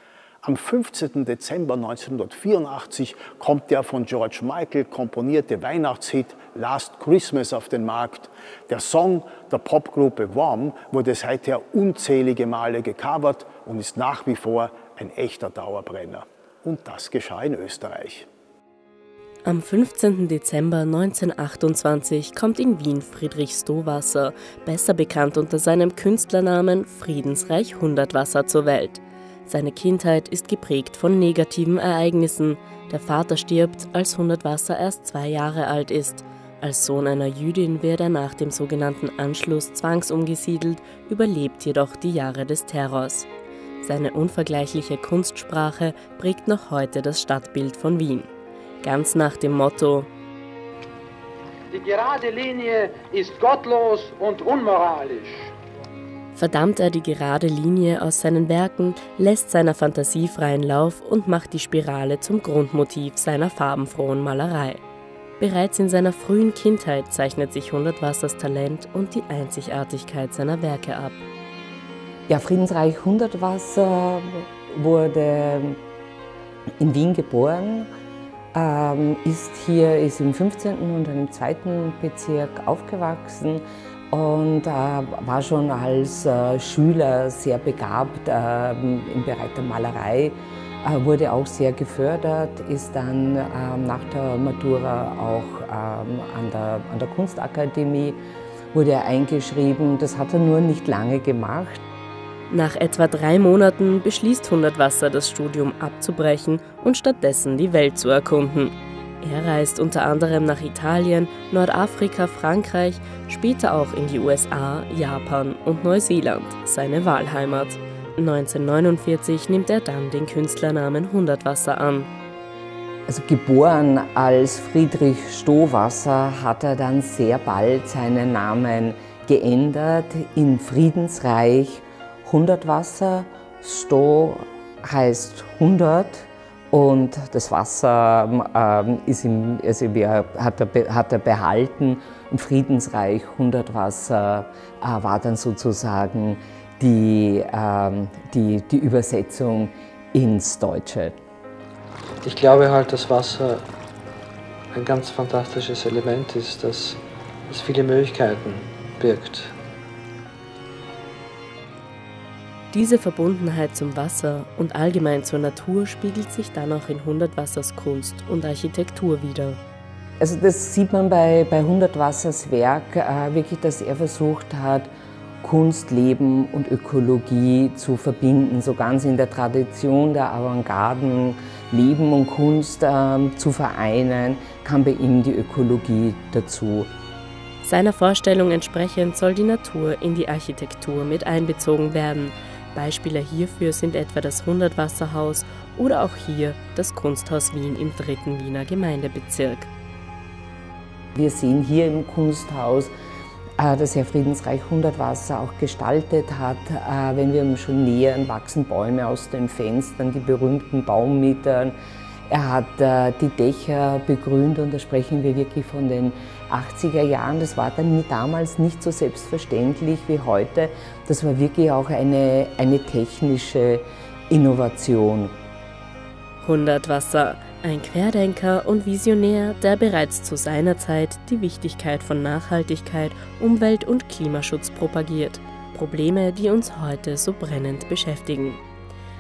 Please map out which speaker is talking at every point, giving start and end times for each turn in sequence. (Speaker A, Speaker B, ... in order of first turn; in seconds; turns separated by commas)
Speaker A: 0.4-18.3, Speaker B: 19.4-43.3, Speaker B: 43.8-48.3, Speaker B: 48.8-50.1, Speaker C: 51.7-55.5, Speaker B: 56.3-64.8, Speaker B: 65.4-71.2, Speaker D: 72.3-75.8, Speaker D: 76.8-77.9, Speaker D: 78.5-98.2, Speaker D: 98.7-101.8, Speaker B: 102.5-122.1, Speaker D: 123.1-151.2, Speaker E: 152.2-153.7, Speaker E: 154.7-159.6, Speaker B: 162.7-169.6, Speaker D: 170.2-186.9, Speaker B: 187.6-199.7, Speaker D: 201.2-202.9, Speaker D: 203.6-211.8, Speaker D: 212.3-225.3, Speaker B: 226.4-238.6